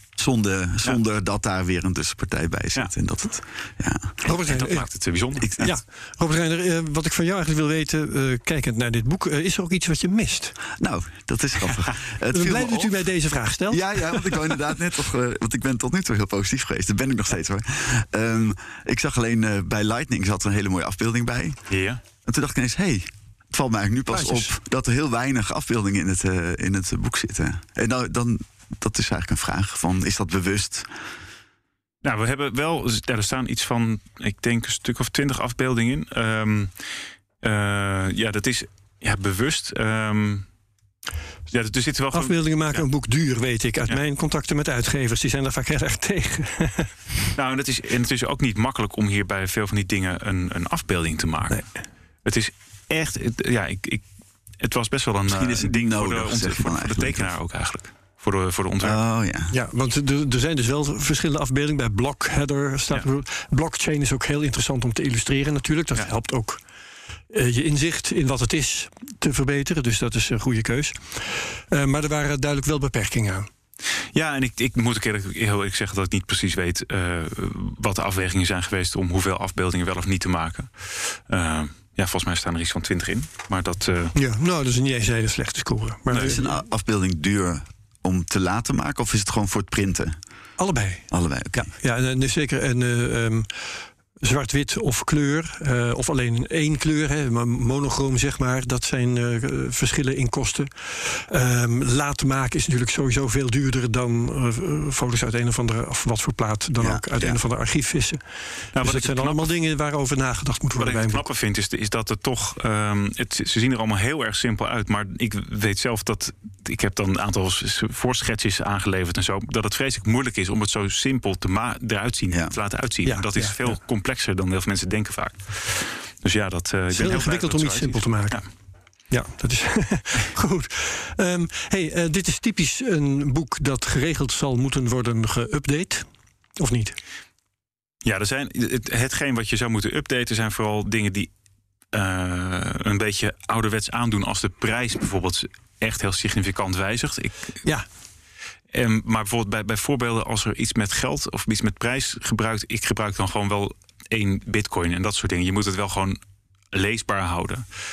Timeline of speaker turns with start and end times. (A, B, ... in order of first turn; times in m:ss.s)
0:00.2-0:04.1 A
0:04.2-0:05.7 B
0:04.2-0:04.9 C
0:05.4-0:05.7 A
0:05.6-0:10.6 C
0:10.8-0:12.9 A
0:12.3-0:14.5 C
0:13.7-0:21.6 A
0:21.7-0:22.0 B
0:22.2-0:30.9 A
0:24.1-0:24.5 C
0:32.0-0:36.7 B
0:37.4-0:40.5 B
0:41.5-0:42.8 B
0:42.1-0:46.9 C
0:47.4-0:51.7 B
0:52.2-0:54.0 B
0:54.6-0:59.0 B
0:55.3-0:57.3 A
0:58.8-0:59.5 A
0:59.5-1:06.6 C
1:07.3-1:13.5 C
1:14.1-1:24.1 B
1:24.2-1:26.6 C
1:26.1-1:26.4 B
1:26.2-1:30.2 A
1:30.6-1:33.7 C
1:31.1-1:31.7 A
1:34.2-1:48.2 C
1:46.8-1:47.4 A
1:48.7-1:49.5 B
1:48.8-1:51.2 C
1:50.8-2:08.4 B
2:03.0-2:03.8 C
2:06.9-2:08.4 C
2:09.1-2:16.1 C
2:16.6-2:17.0 C
2:18.0-2:21.3 B
2:21.9-2:27.6 B
2:28.7-2:36.2 B
2:36.7-2:37.7 B